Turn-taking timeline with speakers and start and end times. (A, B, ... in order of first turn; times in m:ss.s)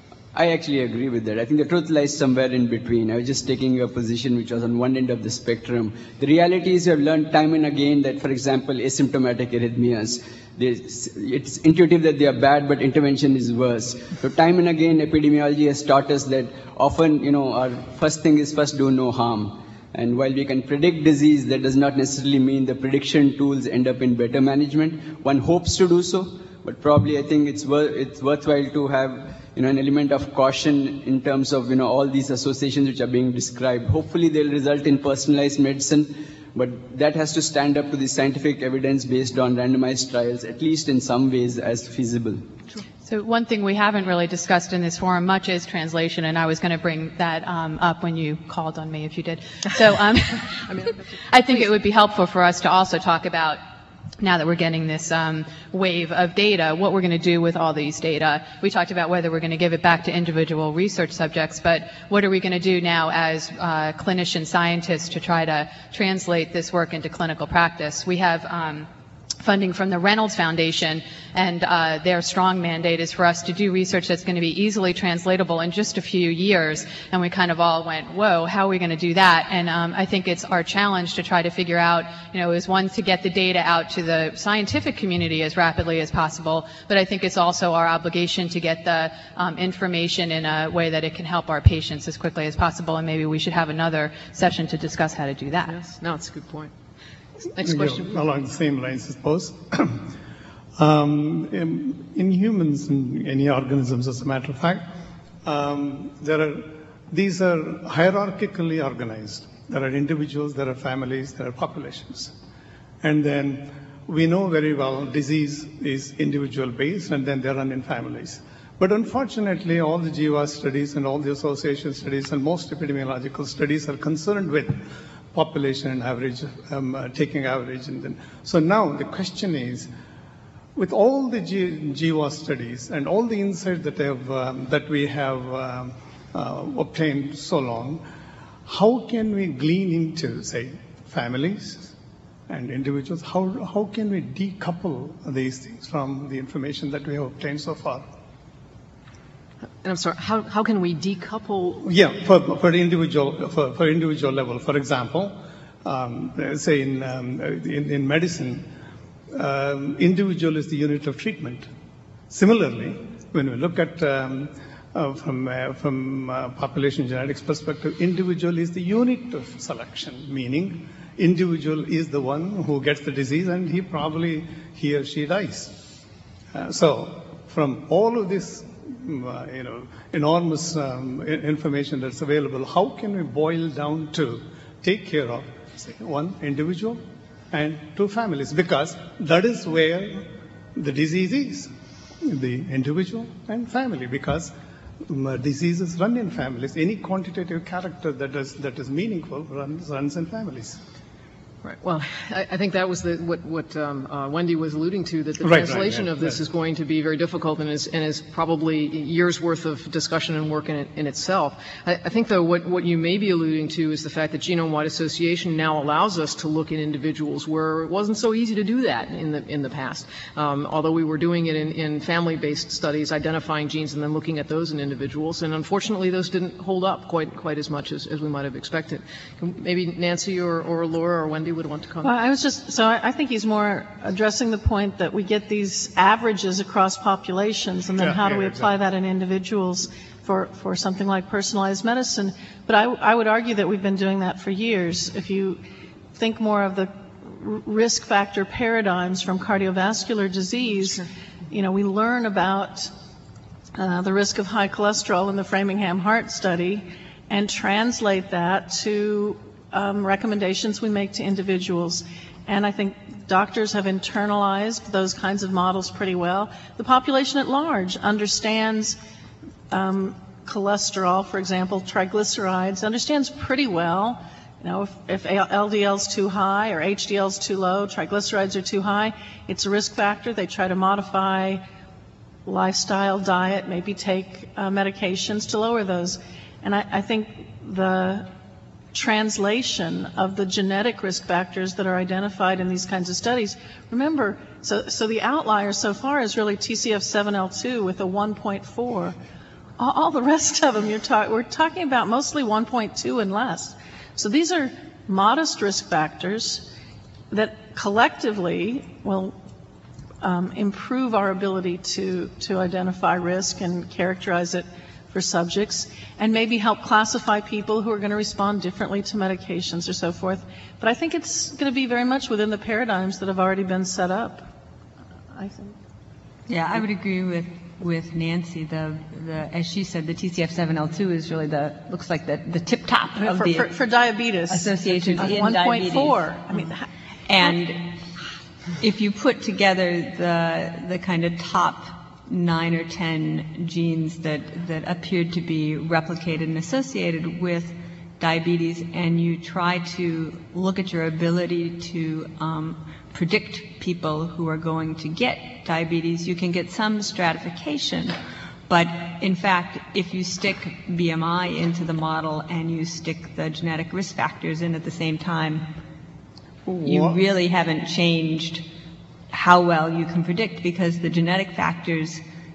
0:00.3-0:42.5 A
0:43.0-0:50.6 B
0:50.4-0:51.7 C
0:51.3-0:53.6 B
0:54.2-1:08.9 B
1:09.4-1:35.8 B
1:35.7-1:36.7 C
1:37.5-1:38.1 C
1:37.6-1:40.1 D
1:40.8-1:44.8 D
1:45.4-1:52.3 D
1:53.0-2:09.9 D
2:10.8-2:18.0 D
2:18.6-2:21.9 D
2:22.5-2:28.0 D
2:29.8-2:31.8 C
2:31.8-2:38.7 D
2:39.3-2:41.7 D
2:42.3-2:55.7 D
2:56.5-3:14.5 D
3:15.0-3:20.8 D
3:21.6-3:52.1 C
3:25.4-3:26.4 D
3:52.0-4:05.6 E
3:58.0-3:58.8 D
4:06.1-4:12.9 E
4:10.7-4:11.0 C
4:13.7-4:29.0 E
4:29.7-4:41.6 E
4:42.4-4:48.3 E
4:48.9-4:59.2 E
4:59.8-5:06.7 E
5:07.3-5:09.4 E
5:10.2-5:24.5 E
5:25.3-5:25.8 E
5:26.5-5:33.7 F
5:33.2-5:36.8 E
5:34.5-5:36.4 F
5:37.3-5:38.0 F
5:38.8-5:58.2 F
5:58.7-6:05.7 F
6:06.6-6:07.2 D
6:06.8-6:08.7 F
6:09.3-6:12.2 F